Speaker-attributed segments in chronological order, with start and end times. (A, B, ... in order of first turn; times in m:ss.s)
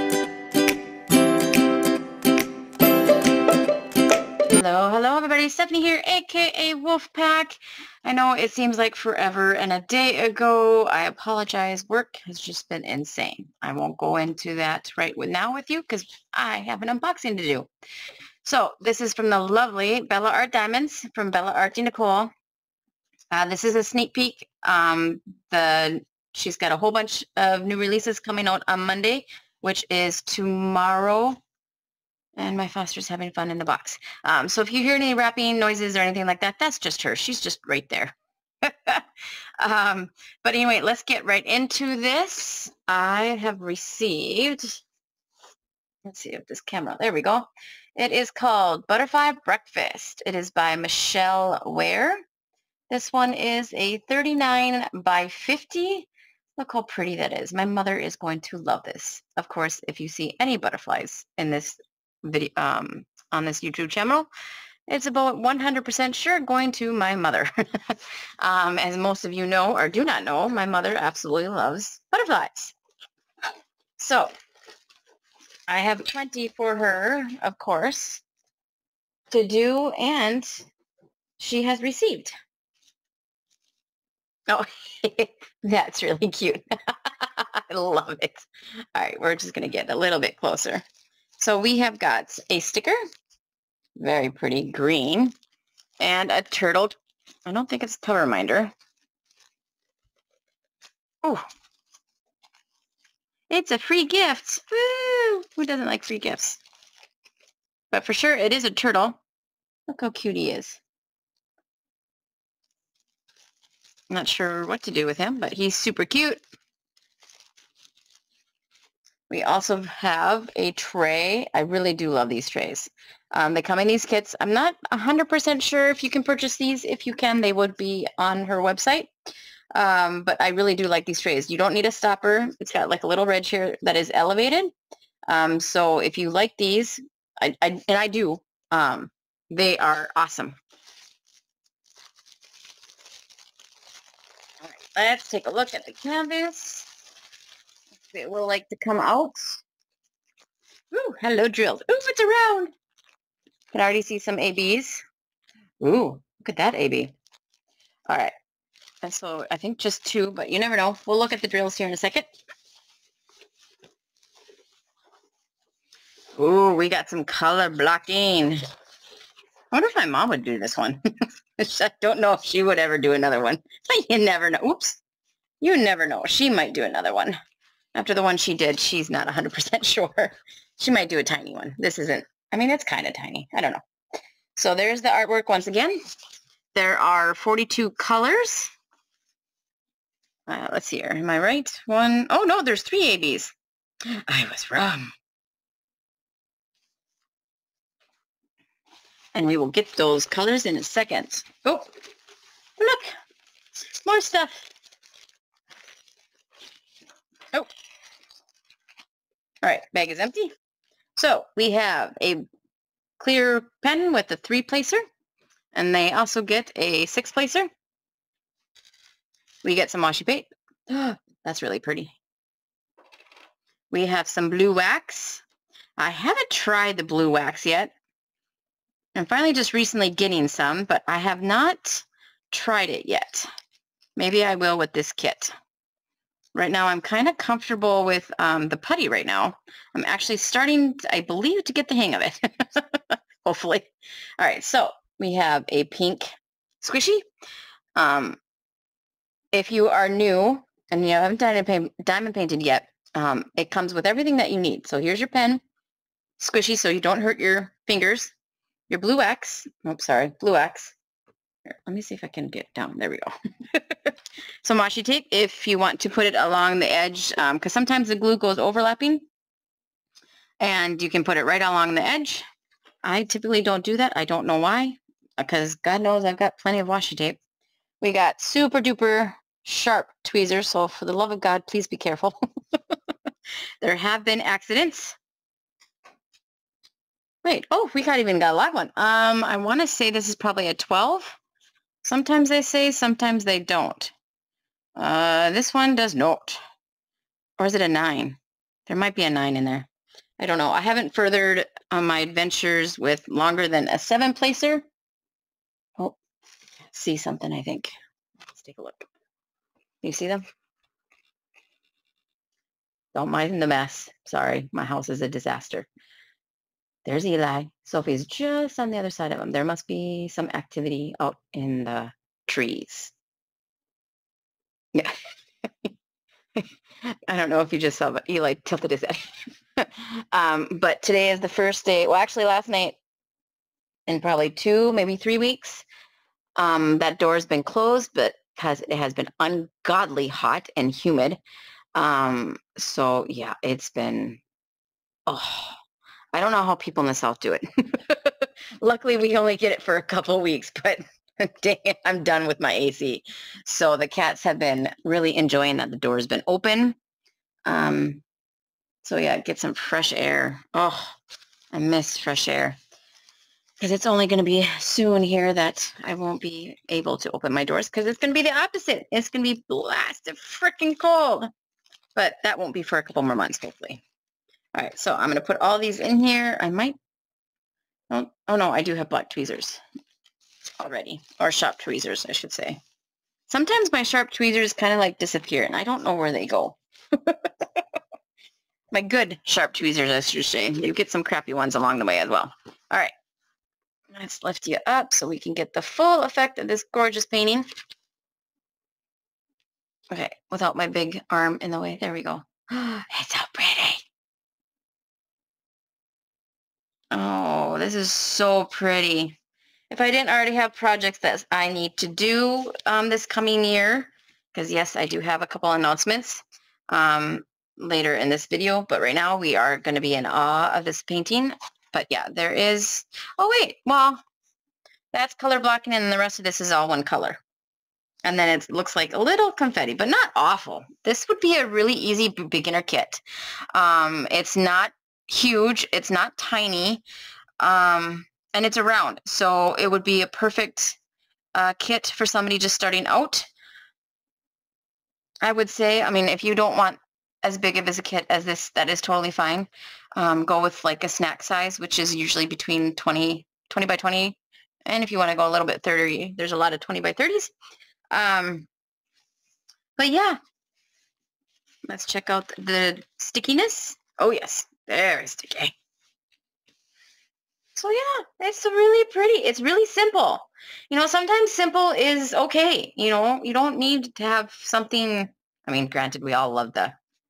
0:04.5-0:17.7 A
0:18.4-0:22.3 A
0:23.3-0:31.4 A
0:32.4-0:39.1 A
0:39.6-0:44.8 A
0:46.0-0:52.2 A
0:52.9-1:04.3 A
1:04.9-1:12.8 A
1:14.0-1:14.3 A
1:15.7-1:18.2 A
1:19.3-1:20.6 A
1:21.4-1:22.3 A
1:24.5-1:30.8 A
1:31.4-1:33.0 A
1:34.0-1:35.3 A
1:36.0-1:38.7 A
1:43.5-1:46.6 A
1:47.9-1:49.2 A
1:49.9-1:50.8 A
1:54.1-1:56.4 A
1:59.3-2:09.1 A
2:09.8-2:14.7 A
2:15.3-2:20.6 A
2:24.6-2:26.9 A
2:28.1-2:29.6 A
2:30.9-2:32.7 A
2:33.7-2:35.0 A
2:35.8-2:37.1 A
2:39.0-2:42.3 A
2:46.4-2:48.6 A
2:49.7-2:51.0 A
2:51.6-2:55.0 A
2:55.6-2:57.4 A
2:58.0-3:03.8 A
3:04.6-3:06.0 A
3:06.7-3:08.7 A
3:10.5-3:13.5 A
3:14.3-3:15.1 A
3:19.4-3:21.9 A
3:22.8-3:23.2 A
3:24.0-3:24.7 A
3:29.6-3:30.5 A
3:31.2-3:32.4 A
3:33.2-3:35.0 A
3:35.7-3:37.7 A
3:39.6-3:42.2 A
3:43.9-3:45.4 A
3:46.0-3:47.9 A
3:49.2-3:53.5 A
3:54.2-3:55.5 A
3:56.6-4:06.3 A
4:06.8-4:07.2 A
4:08.0-4:08.4 A
4:09.5-4:15.6 A
4:16.4-4:18.3 A
4:18.9-4:21.0 A
4:21.9-4:29.3 A
4:30.6-4:32.4 A
4:33.0-4:37.4 A
4:38.0-4:43.0 A
4:43.8-4:45.2 A
4:47.4-4:51.4 A
4:52.0-4:54.1 A
4:55.0-4:56.6 A
4:57.6-5:04.9 A
5:06.9-5:07.9 A
5:08.5-5:09.1 A
5:10.0-5:10.4 A
5:13.2-5:15.9 A
5:17.0-5:23.1 A
5:26.6-5:29.2 A
5:29.8-5:33.0 A
5:34.1-5:35.9 A
5:36.6-5:41.4 A
5:42.0-5:44.4 A
5:45.3-5:45.8 A
5:46.3-5:57.0 A
5:57.7-5:58.2 A
5:59.0-6:01.1 A
6:01.7-6:02.8 A
6:03.8-6:11.5 A
6:12.2-6:14.0 A
6:14.7-6:17.0 A
6:18.1-6:19.8 A
6:20.8-6:22.8 A
6:23.5-6:27.8 A
6:28.9-6:33.1 A
6:34.1-6:37.6 A
6:40.1-6:44.0 A
6:47.1-6:49.4 A
6:49.9-7:04.2 A
7:05.1-7:07.4 A
7:08.2-7:17.0 A
7:17.6-7:21.0 A
7:21.6-7:23.5 A
7:25.4-7:37.5 A
7:38.1-7:38.7 A
7:40.0-7:40.4 A
7:41.9-7:45.7 A
7:47.8-7:57.0 A